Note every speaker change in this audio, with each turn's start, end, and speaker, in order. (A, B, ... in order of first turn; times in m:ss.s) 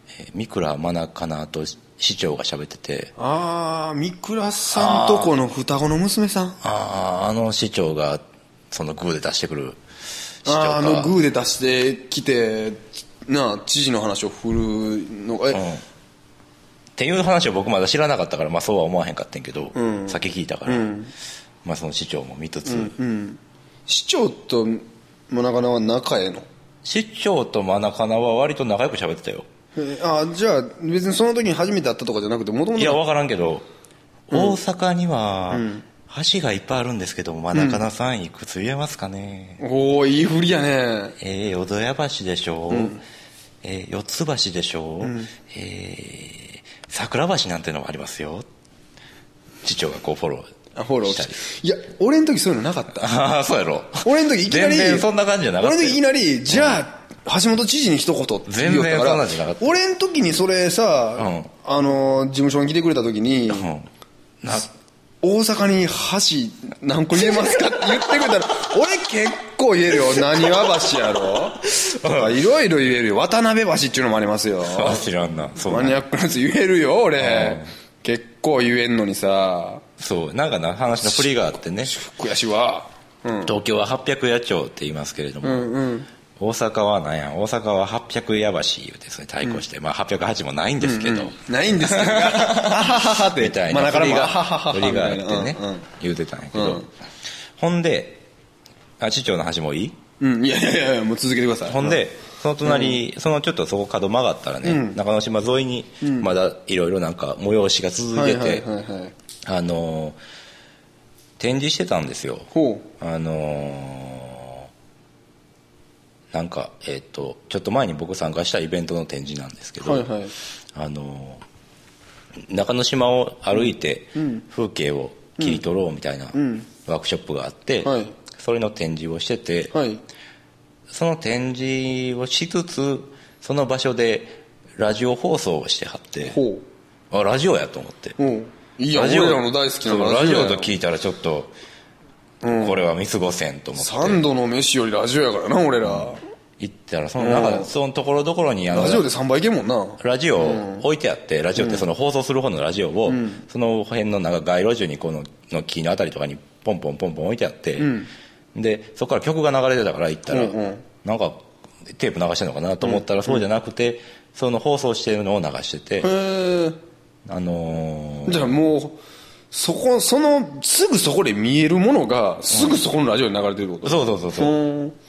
0:00.1-0:03.1 A
0:03.2-0:06.6 B
0:04.7-0:05.3 A
0:06.6-0:09.8 A
0:10.4-0:11.1 A
0:10.4-0:15.6 B
0:15.5-0:15.8 A
0:17.0-0:20.9 A
0:19.7-0:21.1 B
0:21.6-0:23.0 A
0:22.6-0:26.4 B
0:26.8-0:29.5 A
0:29.8-0:33.0 B
0:32.8-0:33.7 A
0:34.3-0:39.6 A
0:34.3-0:34.6 B
0:35.5-0:35.8 B
0:37.5-0:37.8 B
0:39.6-0:41.2 B
0:41.2-0:43.0 A
0:42.7-0:43.0 B
0:43.6-0:48.5 A
0:45.0-0:45.3 B
0:49.6-0:50.5 A
0:50.8-0:53.1 B
0:51.0-0:51.4 A
0:53.0-0:56.8 A
0:54.0-1:03.7 B
0:58.5-0:59.7 A
1:01.2-1:01.5 A
1:03.5-1:03.9 A
1:04.4-1:04.7 A
1:05.2-1:15.0 B
1:11.8-1:12.3 A
1:14.6-1:16.0 A
1:15.6-1:19.8 B
1:17.2-1:17.7 A
1:20.0-1:21.9 A
1:21.0-1:23.5 B
1:23.4-1:25.7 A
1:25.4-1:26.1 B
1:26.4-1:36.9 A
1:30.8-1:35.9 B
1:36.5-1:36.9 B
1:37.6-1:38.2 A
1:39.0-1:40.0 A
1:40.2-1:42.0 B
1:41.7-1:48.6 A
1:42.6-1:43.0 B
1:44.6-1:45.0 B
1:46.0-1:46.3 B
1:48.1-1:49.1 B
1:49.4-1:50.2 A
1:51.4-1:52.5 A
1:52.5-1:52.9 B
1:53.0-1:54.7 A
1:56.3-2:00.0 A
1:59.8-2:00.3 B
2:00.7-2:01.4 A
2:02.4-2:09.7 A
2:03.6-2:04.4 B
2:05.4-2:05.6 B
2:06.3-2:06.7 B
2:07.8-2:08.1 B
2:09.7-2:10.0 B
2:10.9-2:16.4 A
2:16.2-2:16.6 B
2:17.1-2:18.2 A
2:18.2-2:20.8 B
2:18.9-2:21.5 A
2:22.4-2:22.8 B
2:22.5-2:24.2 A
2:23.8-2:26.2 B
2:25.8-2:29.0 A
2:27.2-2:27.7 B
2:28.7-2:30.8 B
2:30.0-2:37.9 A
2:31.6-2:31.8 B
2:33.1-2:33.4 B
2:37.8-2:38.1 B
2:38.5-2:46.1 A
2:40.3-2:40.8 B
2:42.8-2:43.4 B
2:46.0-2:46.8 B
2:47.2-2:48.5 A
2:48.2-2:49.0 B
2:49.5-2:54.9 B
2:52.5-2:52.8 A
2:53.8-2:54.6 A